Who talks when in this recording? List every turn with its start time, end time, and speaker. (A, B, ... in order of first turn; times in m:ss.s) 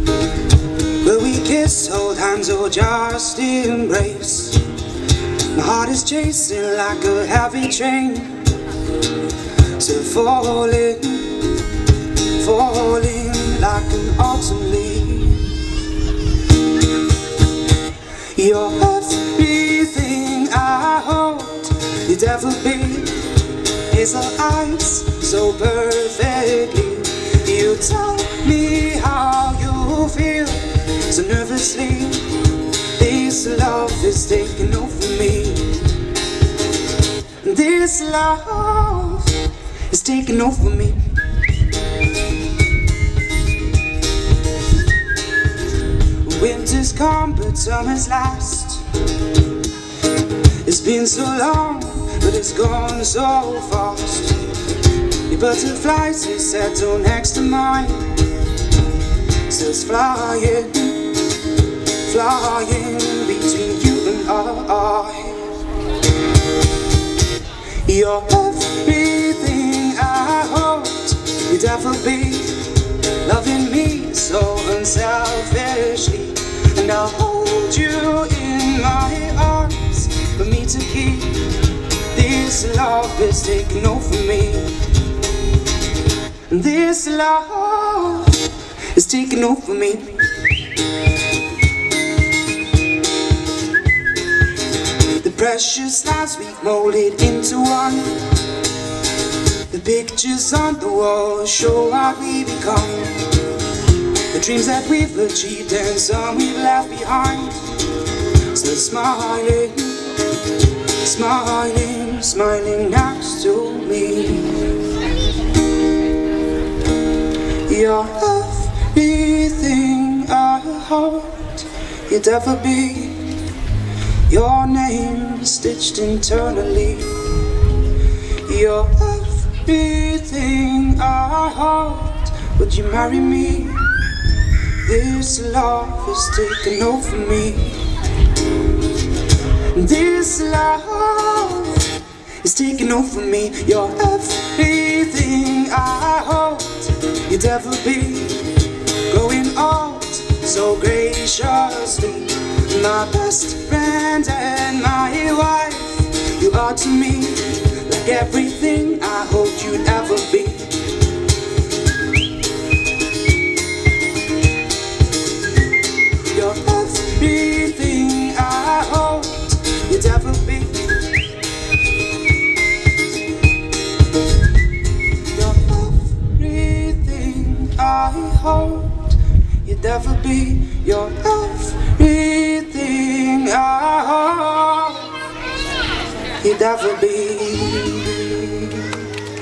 0:01.0-0:04.6 A
0:05.5-0:08.5 A
0:09.8-0:11.6 A
0:12.3-0:15.5 A
0:18.3-0:35.9 A
0:37.4-0:41.0 A
0:46.2-0:48.8 A
0:50.6-0:54.5 A
0:55.3-0:58.2 A
0:59.5-1:05.5 A
1:07.8-1:24.9 A
1:26.5-1:30.3 A
1:35.2-1:38.2 A
1:39.7-1:43.4 A
1:44.3-1:47.8 A
1:48.5-1:50.2 A
1:50.8-1:54.7 A
1:57.7-2:03.3 A
2:04.3-2:07.2 A
2:08.4-2:13.9 A
2:14.8-2:17.9 A
2:19.7-2:41.0 A
2:46.3-2:51.1 A
2:55.3-3:05.2 A
3:06.4-3:09.0 A